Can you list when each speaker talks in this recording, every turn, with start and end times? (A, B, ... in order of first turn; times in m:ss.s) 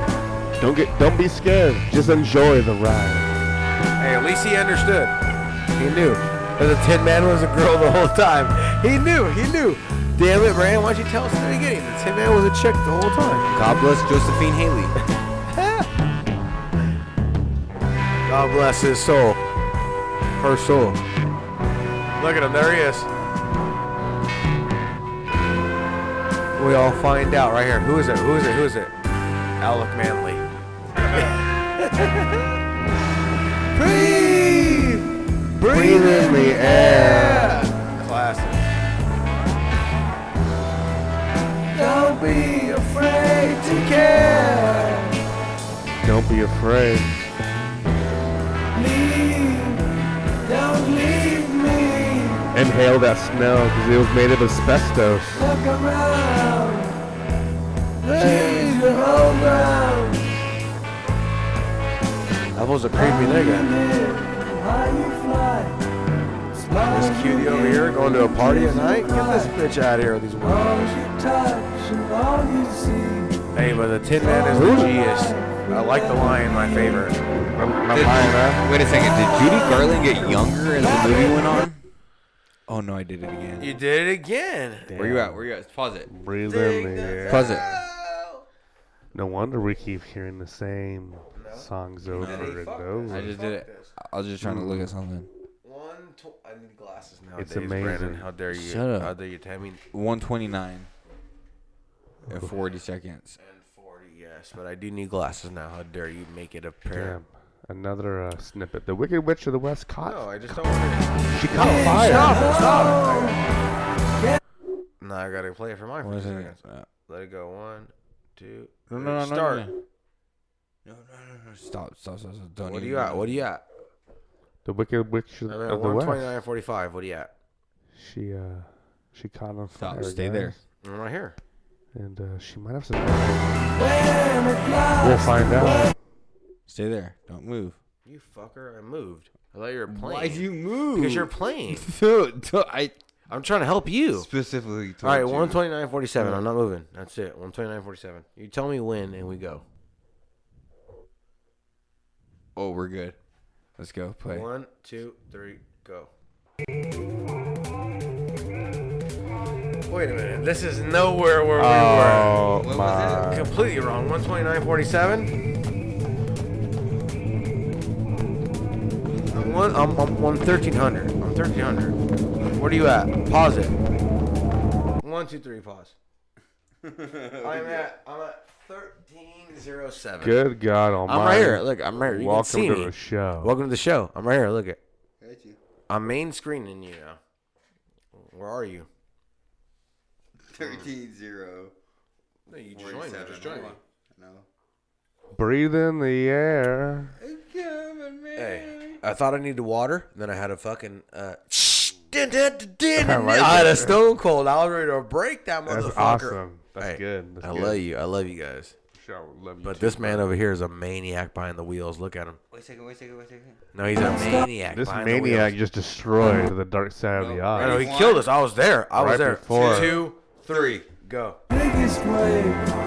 0:00.6-0:03.3 A
0:04.0-0:05.1 B
0:05.8-0:13.5 B
0:13.5-0:15.0 C
0:15.5-0:15.9 B
0:18.3-0:19.4 B
0:20.4-0:21.0 B
0:22.2-0:23.1 B
0:26.6-0:28.9 B
0:29.6-0:30.4 B
0:31.0-0:32.5 B
0:33.8-0:35.1 B
0:35.6-0:38.7 B
0:35.7-0:37.6 A
0:41.8-0:43.6 D
0:43.5-0:45.0 B
0:46.0-0:47.2 A
0:48.8-0:49.8 D
0:50.5-0:52.3 D
0:52.5-0:55.4 A
0:55.6-0:56.9 D
0:58.0-1:00.2 B
0:58.2-0:58.7 A
1:02.6-1:03.7 B
1:03.7-1:05.7 D
1:06.7-1:07.5 D
1:06.9-1:11.0 B
1:10.8-1:13.3 D
1:13.5-1:17.2 B
1:14.5-1:15.0 A
1:17.6-1:18.6 A
1:17.9-1:21.8 C
1:22.7-1:23.8 C
1:23.6-1:25.0 B
1:24.9-1:25.4 A
1:24.9-1:26.1 C
1:26.1-1:27.6 A
1:26.4-1:28.5 B
1:27.3-1:27.8 C
1:29.1-1:33.4 A
1:31.4-1:33.9 B
1:32.1-1:35.3 C
1:34.4-1:34.9 A
1:35.6-1:39.8 B
1:37.4-1:38.3 A
1:38.5-1:39.1 C
1:39.9-1:40.9 C
1:42.3-1:43.4 C
1:43.4-1:47.2 B
1:46.9-1:50.5 A
1:50.0-1:53.4 B
1:51.3-1:52.6 A
1:55.0-1:59.7 B
1:56.0-1:56.9 C
1:58.9-1:59.7 C
2:00.8-2:03.4 C
2:02.6-2:03.6 B
2:04.6-2:06.3 A
2:05.5-2:07.3 B
2:08.0-2:10.6 A
2:09.8-2:10.6 C
2:10.8-2:11.4 B
2:11.9-2:13.5 A
2:15.0-2:15.9 A
2:16.7-2:17.8 C
2:18.0-2:21.9 B
2:19.9-2:23.0 C
2:23.3-2:24.3 B
2:24.1-2:25.6 C
2:25.0-2:29.6 B
2:32.6-2:33.2 C
2:33.8-2:34.5 C
2:34.3-2:36.1 B
2:39.9-2:42.5 B
2:41.6-2:43.5 A
2:42.5-2:43.4 C
2:43.2-2:45.3 B
2:49.3-2:52.0 B
2:52.6-2:53.8 B
2:55.0-2:55.9 B
2:56.8-2:57.9 C
2:57.4-3:00.4 B
3:00.2-3:03.5 A
3:01.1-3:04.8 B
3:05.2-3:05.6 C
3:05.9-3:07.2 B
3:08.2-3:08.9 B
3:10.5-3:11.7 C
3:10.6-3:10.9 B
3:12.5-3:13.8 B
3:12.7-3:14.5 C
3:15.4-3:17.1 A
3:17.2-3:19.0 C
3:18.4-3:28.8 B
3:23.0-3:24.0 A
3:25.7-3:27.8 A
3:29.0-3:30.3 A
3:29.6-3:32.4 B
3:32.5-3:33.6 C
3:33.7-3:35.6 B
3:34.7-3:37.9 A
3:37.1-3:38.3 C
3:37.6-3:41.4 B
3:39.0-3:40.1 A
3:39.5-3:40.9 C
3:41.6-3:42.7 D